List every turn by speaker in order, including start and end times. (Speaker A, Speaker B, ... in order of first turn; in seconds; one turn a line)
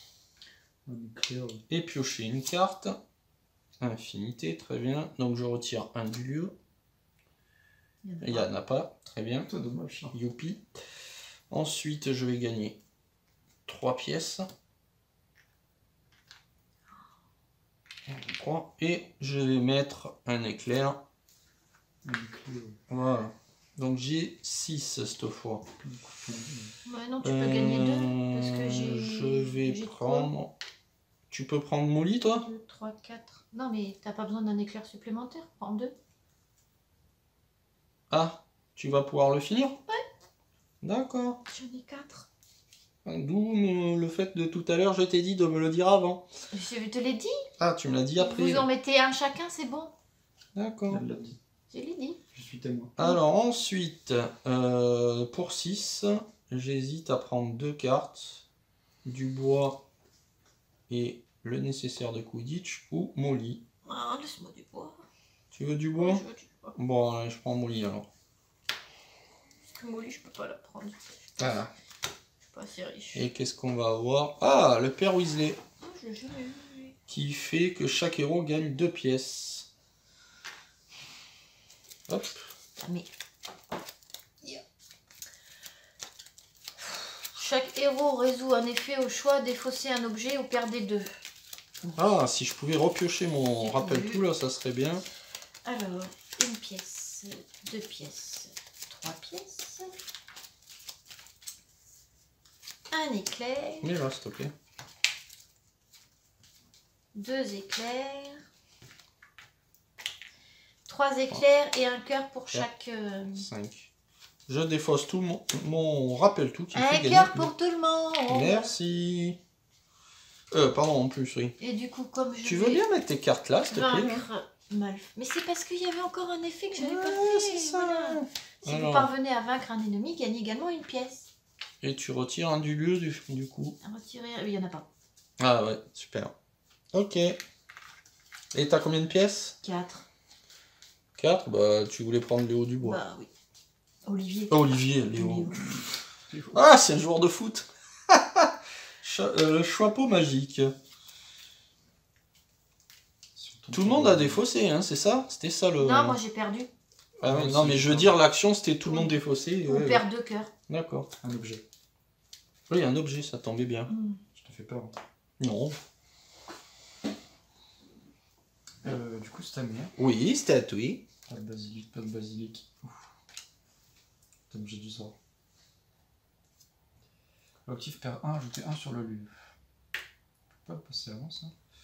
Speaker A: 0.8-1.6
Speaker B: 1.7-3.0
Speaker B: 3.8-6.5
Speaker C: 8.0-8.5
Speaker B: 8.2-9.5
Speaker A: 9.4-10.1
Speaker B: 10.1-10.6
Speaker B: 11.5-12.8
Speaker B: 13.7-14.5
Speaker B: 18.1-21.0
Speaker A: 22.0-22.8
Speaker B: 22.9-25.6
Speaker A: 25.8-26.7
Speaker C: 26.9-30.3
Speaker B: 27.2-30.5
Speaker B: 31.3-32.5
Speaker C: 32.4-35.9
Speaker B: 38.1-39.8
Speaker B: 40.8-41.4
Speaker C: 41.5-42.3
Speaker B: 43.0-46.2
Speaker C: 46.5-47.5
Speaker B: 47.6-48.6
Speaker C: 48.2-49.9
Speaker B: 50.5-51.0
Speaker A: 50.9-51.4
Speaker C: 51.7-52.2
Speaker A: 52.3-52.9
Speaker B: 53.0-58.4
Speaker B: 59.0-59.8
Speaker B: 60.9-63.6
Speaker C: 63.9-65.0
Speaker B: 65.5-66.2
Speaker C: 66.0-66.7
Speaker B: 66.7-68.1
Speaker C: 69.7-71.7
Speaker B: 71.4-71.7
Speaker C: 72.5-73.2
Speaker B: 73.1-75.6
Speaker C: 75.8-76.9
Speaker B: 77.1-79.7
Speaker B: 82.1-82.4
Speaker C: 82.8-83.1
Speaker C: 87.3-91.1
Speaker B: 91.9-95.0
Speaker C: 93.6-94.2
Speaker C: 95.6-99.9
Speaker C: 102.9-103.9
Speaker B: 103.8-104.5
Speaker C: 107.1-108.4
Speaker C: 110.8-113.5
Speaker B: 113.3-113.9
Speaker B: 114.5-117.5
Speaker C: 116.7-118.7
Speaker B: 118.3-119.4
Speaker B: 120.5-121.5
Speaker C: 121.6-122.8
Speaker B: 122.4-124.2
Speaker C: 123.7-131.3
Speaker B: 126.8-129.1
Speaker B: 131.8-133.8
Speaker C: 133.8-134.8
Speaker B: 135.4-136.3
Speaker B: 136.9-137.4
Speaker B: 138.5-139.6
Speaker C: 139.6-140.1
Speaker B: 141.2-143.0
Speaker C: 142.8-143.3
Speaker C: 144.0-145.8
Speaker B: 144.5-145.6
Speaker A: 145.6-146.6
Speaker B: 146.5-150.7
Speaker A: 153.3-154.4
Speaker B: 153.7-156.2
Speaker C: 155.8-156.7
Speaker B: 157.2-160.0
Speaker A: 157.2-158.2
Speaker C: 158.8-159.1
Speaker C: 159.7-160.5
Speaker B: 160.7-161.1
Speaker A: 161.2-161.6
Speaker B: 162.7-163.9
Speaker C: 163.9-164.2
Speaker A: 164.3-164.9
Speaker B: 165.4-165.8
Speaker A: 168.8-169.9
Speaker B: 170.0-171.0
Speaker A: 171.3-173.0
Speaker A: 174.5-175.1
Speaker A: 177.7-179.3
Speaker A: 180.6-181.5